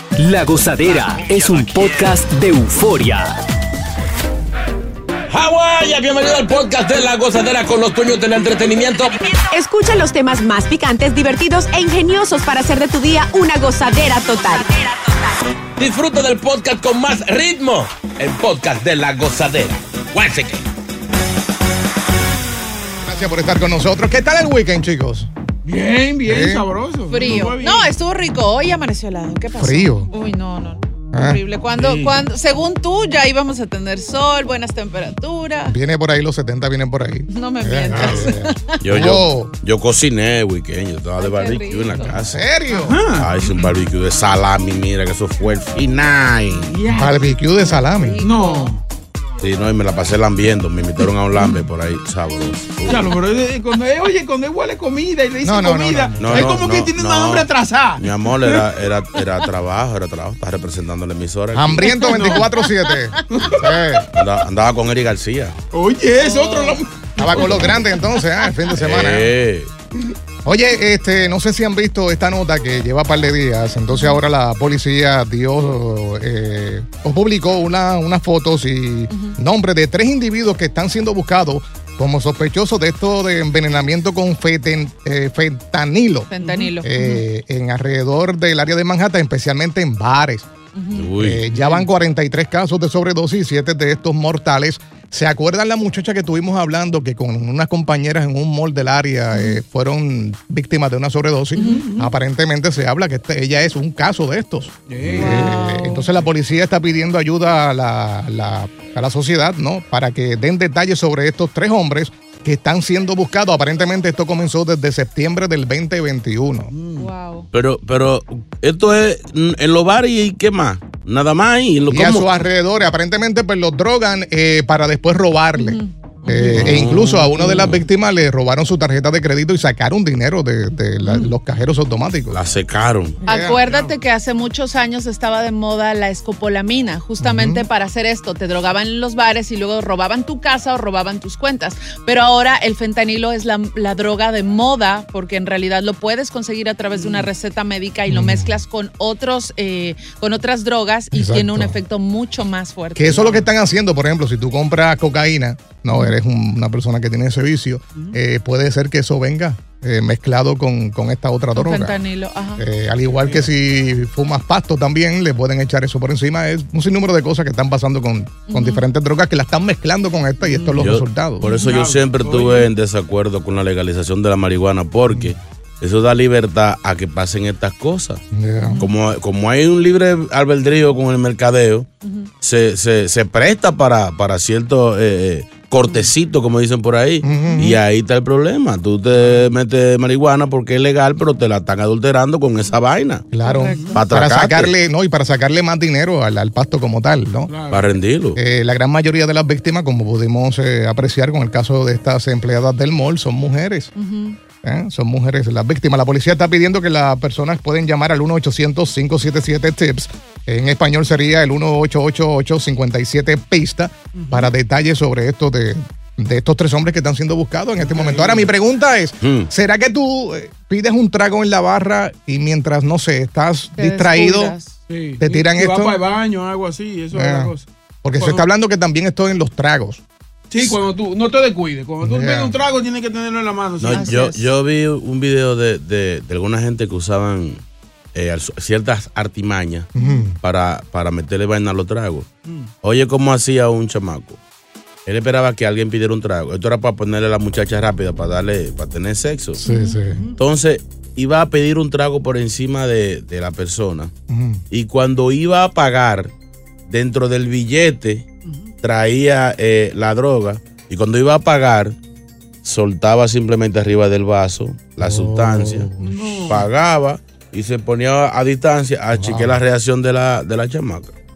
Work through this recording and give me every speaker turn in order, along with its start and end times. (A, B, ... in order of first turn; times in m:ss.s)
0:00.2-0:03.4 A
0:05.3-0:09.3 B
0:09.3-0:14.8 C
0:15.8-0:20.6 B
0:23.0-0:25.3 D
0:25.6-0:27.9 E
0:26.2-0:26.6 D
0:27.1-0:35.8 F
0:29.6-0:30.1 D
0:31.1-0:31.4 D
0:31.7-0:32.2 E
0:35.7-0:39.5 D
0:37.3-0:38.8 F
0:38.8-0:42.5 G
0:41.2-0:42.2 F
0:42.3-0:43.0 D
0:42.7-0:43.7 E
0:43.1-0:46.8 G
0:46.7-0:47.3 E
0:46.9-0:48.3 D
0:47.6-0:48.7 F
0:48.2-0:48.8 E
0:49.4-0:53.2 G
0:52.9-0:58.6 E
0:55.4-0:56.9 D
0:56.2-1:02.1 G
1:01.5-1:04.1 D
1:01.8-1:03.2 F
1:02.1-1:02.4 E
1:03.3-1:03.7 E
1:04.1-1:05.6 G
1:05.7-1:07.7 E
1:06.2-1:06.8 F
1:07.2-1:09.3 D
1:08.8-1:09.7 G
1:10.4-1:26.3 D
1:13.9-1:14.2 F
1:19.1-1:19.4 F
1:26.3-1:27.2 F
1:26.4-1:26.7 E
1:26.8-1:30.5 D
1:30.7-1:31.1 F
1:30.9-1:31.4 G
1:31.2-1:56.7 D
1:31.5-1:31.8 E
1:39.3-1:39.6 F
1:41.6-1:41.8 F
1:41.6-1:42.1 E
1:44.9-1:45.5 E
1:45.1-1:46.2 F
1:56.7-1:57.1 E
1:56.9-1:57.5 F
1:57.5-2:02.3 G
2:01.9-2:12.4 D
2:05.6-2:06.8 F
2:06.5-2:07.8 G
2:11.0-2:11.3 F
2:12.3-2:13.2 G
2:13.2-2:13.8 D
2:13.2-2:33.4 F
2:13.6-2:13.9 E
2:17.2-2:17.6 D
2:26.9-2:27.2 E
2:28.1-2:28.6 D
2:31.1-2:31.8 D
2:33.0-2:42.0 D
2:41.5-2:42.6 F
2:42.6-2:51.5 D
2:48.5-2:48.9 F
2:50.8-2:58.2 G
2:51.4-2:52.7 E
2:58.3-2:58.8 D
2:58.6-2:58.9 F
2:58.8-3:01.9 G
3:02.0-3:02.3 F
3:02.4-3:13.3 G
3:07.2-3:07.7 D
3:13.3-3:17.5 D
3:13.4-3:14.0 F
3:13.9-3:14.7 G
3:17.5-3:17.9 E
3:17.7-3:18.4 G
3:18.4-3:23.9 D
3:24.0-3:24.4 F
3:24.6-3:44.6 D
3:34.1-3:34.5 E
3:37.8-3:38.5 E
3:39.2-3:39.5 G
3:43.8-3:44.8 F
3:44.9-3:48.4 E
3:45.2-3:46.0 D
3:47.1-3:47.5 D
3:48.0-3:50.0 D
3:50.5-3:54.4 E
3:52.0-3:52.5 D
3:53.8-3:57.6 G
3:53.9-3:54.4 F
3:58.1-3:59.9 G
3:59.9-4:00.4 D
4:00.4-4:02.3 G
4:02.8-4:04.4 G
4:05.0-4:09.6 G
4:09.6-4:10.0 F
4:09.6-4:10.2 D
4:10.1-4:10.4 E
4:10.4-4:14.1 G
4:14.3-4:14.6 D
4:14.7-4:16.3 G
4:16.9-4:18.2 G
4:18.8-4:22.0 G
4:22.6-4:25.9 G
4:25.0-4:26.5 D
4:26.0-4:26.6 E
4:26.4-4:31.1 G
4:29.2-4:29.6 D